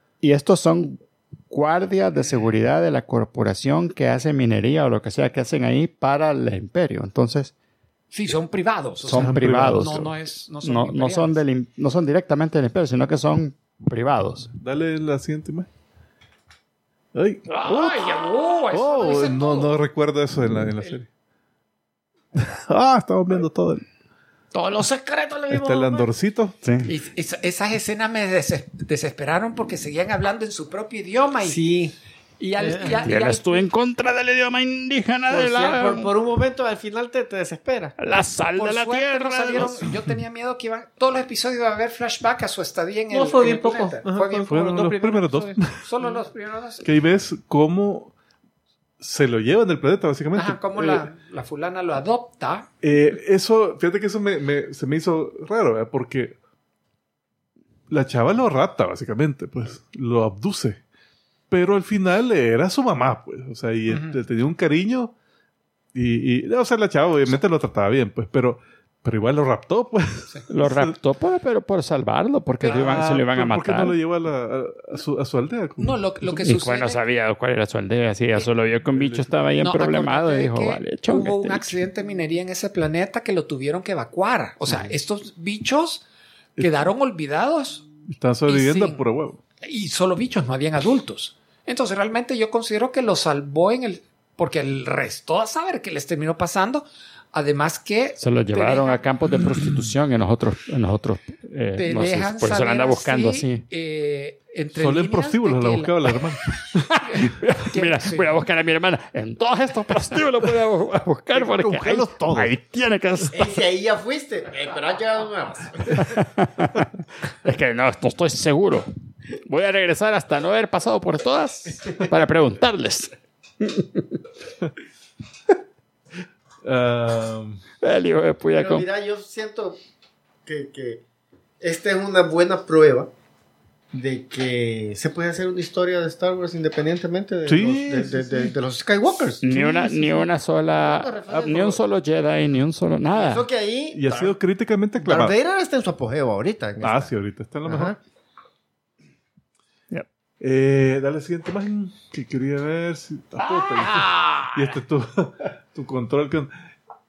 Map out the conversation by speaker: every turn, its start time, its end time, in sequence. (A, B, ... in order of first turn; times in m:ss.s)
0:00.2-0:07.5 A
0:08.1-0:11.4 B
0:09.0-0:10.1 A
0:09.1-0:10.1 C
0:10.6-0:14.5 A
0:14.5-0:15.7 C
0:17.1-0:21.1 C
0:17.5-0:19.8 B
0:22.3-0:23.8 C
0:24.5-0:26.1 D
0:25.5-0:26.6 C
0:26.6-0:26.9 A
0:26.8-0:31.6 B
0:31.4-0:31.9 D
0:32.4-0:33.6 B
0:32.6-0:33.1 D
0:33.0-0:36.1 A
0:35.3-0:38.0 D
0:38.0-0:39.9 A
0:38.6-0:46.9 B
0:43.1-0:45.1 D
0:44.4-0:45.8 C
0:46.8-0:48.1 C
0:49.0-0:51.1 C
0:50.3-0:52.7 B
0:52.8-0:56.4 C
0:57.9-1:00.8 C
1:01.5-1:05.1 C
1:03.9-1:04.2 B
1:05.9-1:10.9 C
1:10.5-1:14.0 A
1:12.6-1:13.1 B
1:12.7-1:16.4 C
1:15.8-1:17.0 B
1:16.4-1:21.8 A
1:18.9-1:19.3 C
1:19.6-1:26.0 B
1:26.6-1:27.8 B
1:28.1-1:29.4 C
1:28.4-1:29.0 B
1:29.6-1:39.0 B
1:38.2-1:43.6 A
1:41.8-1:46.1 B
1:44.7-1:46.8 C
1:46.9-1:53.6 A
1:47.1-1:48.3 B
1:51.3-1:52.5 C
1:53.3-1:56.2 D
1:56.0-1:56.9 A
1:57.4-1:58.9 A
1:59.4-2:03.1 A
2:06.6-2:07.6 C
2:07.8-2:08.8 A
2:08.5-2:09.8 D
2:10.4-2:11.0 D
2:11.6-2:13.1 D
2:13.9-2:21.8 D
2:17.4-2:18.5 C
2:19.4-2:23.4 A
2:21.3-2:21.6 C
2:23.1-2:24.4 D
2:23.9-2:25.4 C
2:25.0-2:27.1 D
2:26.8-2:28.0 C
2:27.6-2:28.0 D
2:30.4-2:36.5 C
2:33.6-2:34.6 B